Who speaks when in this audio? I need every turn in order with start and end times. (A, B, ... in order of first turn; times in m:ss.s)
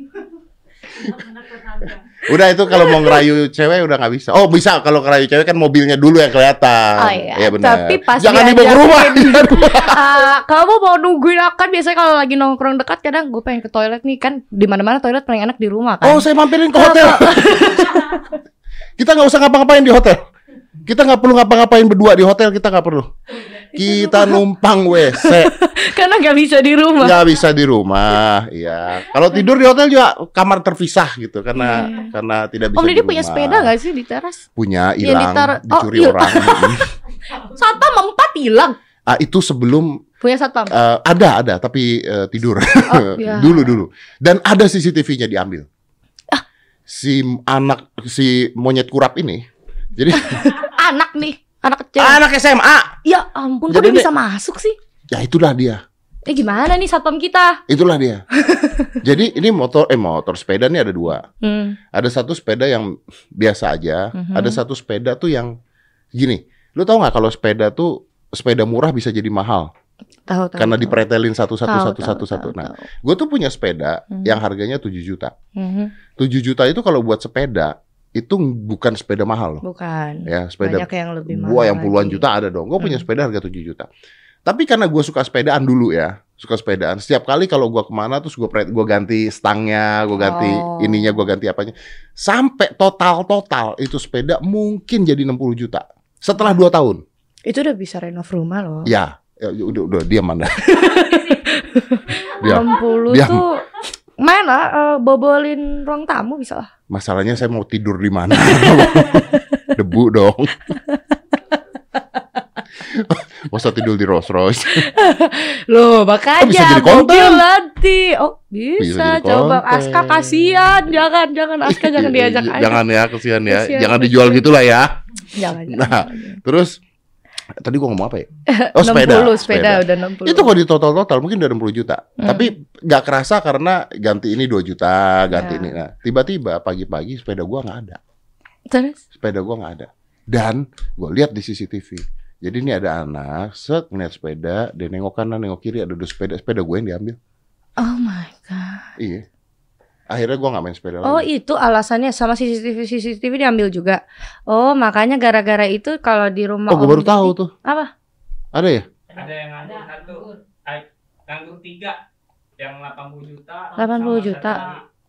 0:01.0-0:10.2 A
0:02.8-0:03.1 B
0:07.0-0:18.3 B
0:16.0-0:18.0 A
0:19.0-0:20.2 A
0:20.9-0:23.1 A
0:23.7-0:25.5 A
0:23.8-0:24.4 B
0:24.9-0:27.2 B
0:27.0-0:33.7 A
0:31.5-0:32.1 B
0:32.8-0:34.4 B
0:34.6-0:36.8 A
0:35.0-0:36.8 B
0:37.3-0:38.8 B
0:39.1-0:40.0 A
0:40.2-0:40.7 B
0:40.7-0:45.7 A
0:42.9-0:43.7 B
0:46.9-0:49.4 A
0:50.0-0:50.4 A
0:50.1-0:52.2 B
0:52.0-0:53.0 A
0:53.0-0:54.8 B
0:53.7-0:54.1 A
0:55.1-0:55.8 A
0:56.3-0:57.6 B
0:57.7-0:58.2 A
0:58.4-0:59.0 B
0:59.0-1:01.2 A
1:01.4-1:01.8 B
1:01.9-1:05.5 A
1:04.1-1:04.6 B
1:06.1-1:09.7 A
1:10.3-1:11.0 B
1:10.6-1:15.3 A
1:11.6-1:12.8 B
1:14.1-1:14.4 B
1:15.5-1:15.9 B
1:16.2-1:19.6 A
1:19.6-1:22.2 B
1:20.2-1:23.9 A
1:24.5-1:37.0 A
1:30.2-1:31.2 B
1:37.4-1:38.9 B
1:38.8-1:40.7 A
1:40.6-1:43.6 B
1:42.4-1:43.4 A
1:44.2-1:46.7 B
1:46.9-1:50.7 A
1:48.5-1:49.7 B
1:52.8-1:54.9 A
1:54.7-2:02.8 B
1:56.4-1:57.4 A
1:58.8-2:00.9 A
2:01.6-2:04.9 A
2:03.5-2:04.4 B
2:05.3-2:06.4 B
2:05.6-2:06.8 A
2:07.6-2:18.0 A
2:08.5-2:10.5 B
2:12.2-2:12.5 B
2:15.3-2:15.7 B
2:18.7-2:19.0 B
2:19.1-2:27.2 A
2:27.8-2:28.9 B
2:29.0-2:29.2 A
2:30.1-2:31.3 A
2:31.0-2:37.9 B
2:36.7-2:37.5 A
2:38.5-2:38.8 A
2:39.1-2:42.0 C
2:42.6-2:44.8 C
2:43.8-2:44.6 B